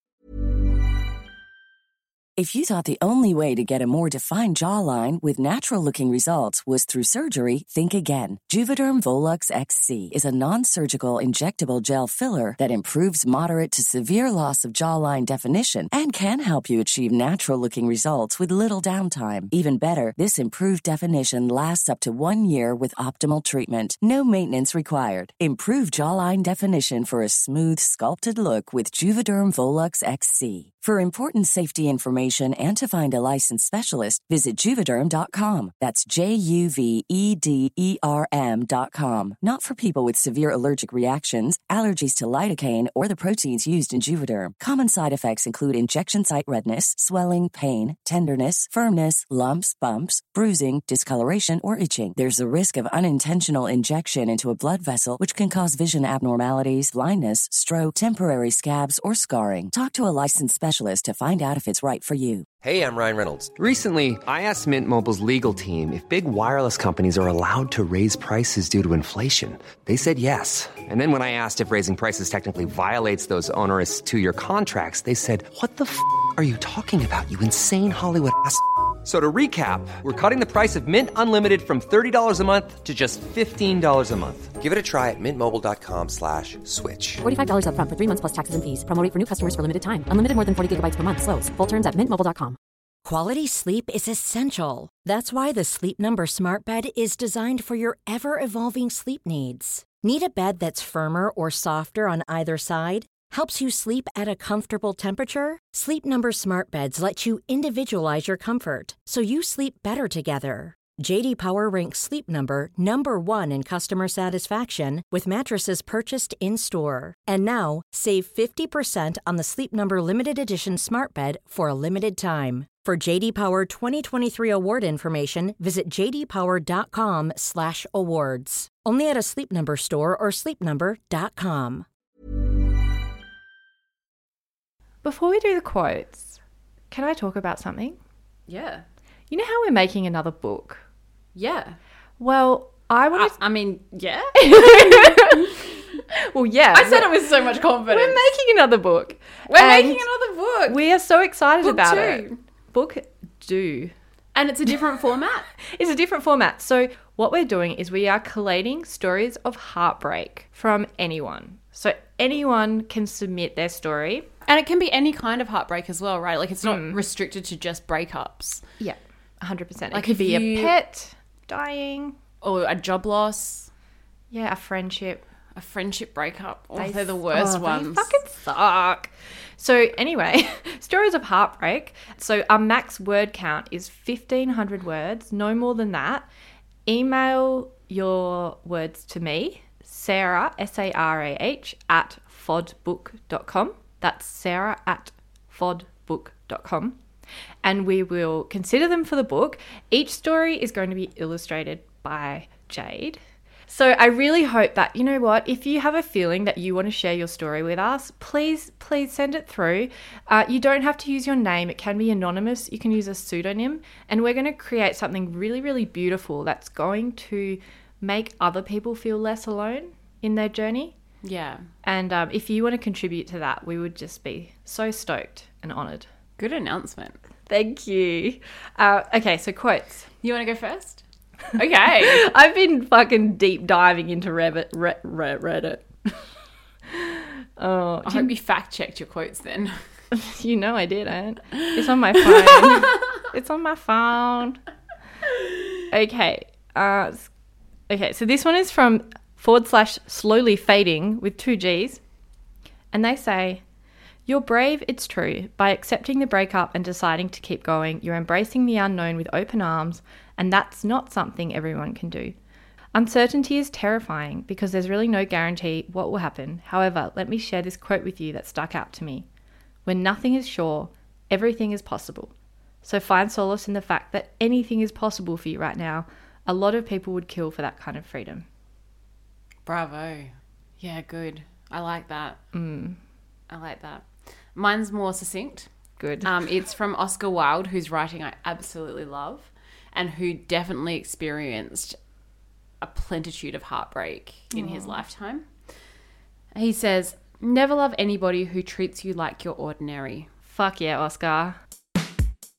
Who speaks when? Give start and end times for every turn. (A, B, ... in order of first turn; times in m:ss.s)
0:02.4-1:02.5 A
1:02.6-1:27.2 B
1:27.2-1:32.6 C
1:33.0-2:11.9 D
2:15.0-2:16.4 E
2:16.9-2:18.0 E
2:18.5-2:18.8 F
2:19.3-2:20.8 E
2:21.4-2:21.8 F
2:22.2-2:23.4 E
2:23.1-2:25.7 F
2:24.4-2:25.6 E
2:26.1-2:27.3 E
2:26.7-2:28.2 F
2:27.9-2:30.0 E
2:29.5-2:30.8 F
2:30.7-2:33.9 E
2:31.6-2:32.4 F
2:34.4-2:35.5 F
2:35.6-2:44.3 E
2:44.5-2:48.6 F
2:46.6-2:47.0 E
2:48.8-2:52.2 E
2:49.9-2:50.8 F
2:52.4-2:53.7 F
2:54.3-2:55.2 E
2:55.6-2:58.1 F
2:56.8-3:06.3 E
3:06.9-3:17.0 E
3:17.6-3:40.9 E
3:41.2-3:41.6 F
3:41.8-3:46.1 E
3:46.4-3:47.2 F
3:47.5-3:50.1 E
3:50.2-3:51.0 F
3:51.6-3:52.2 F
3:52.0-3:56.1 E
3:56.9-3:58.3 E
3:58.0-3:59.7 F
4:00.1-4:04.6 E
4:02.2-4:03.0 F
4:05.9-4:07.3 E
4:07.9-4:12.0 E
4:12.9-4:13.6 E
4:14.3-4:22.4 E
4:22.9-4:29.3 E
4:29.8-4:32.3 E
4:32.8-4:38.5 E
4:39.6-4:42.4 F
4:42.5-4:43.0 E
4:43.5-4:45.7 F
4:46.0-4:46.4 E
4:46.2-4:52.0 F
4:52.8-4:55.5 F
4:54.5-4:54.9 E
4:56.5-5:00.3 F
5:00.5-5:01.6 E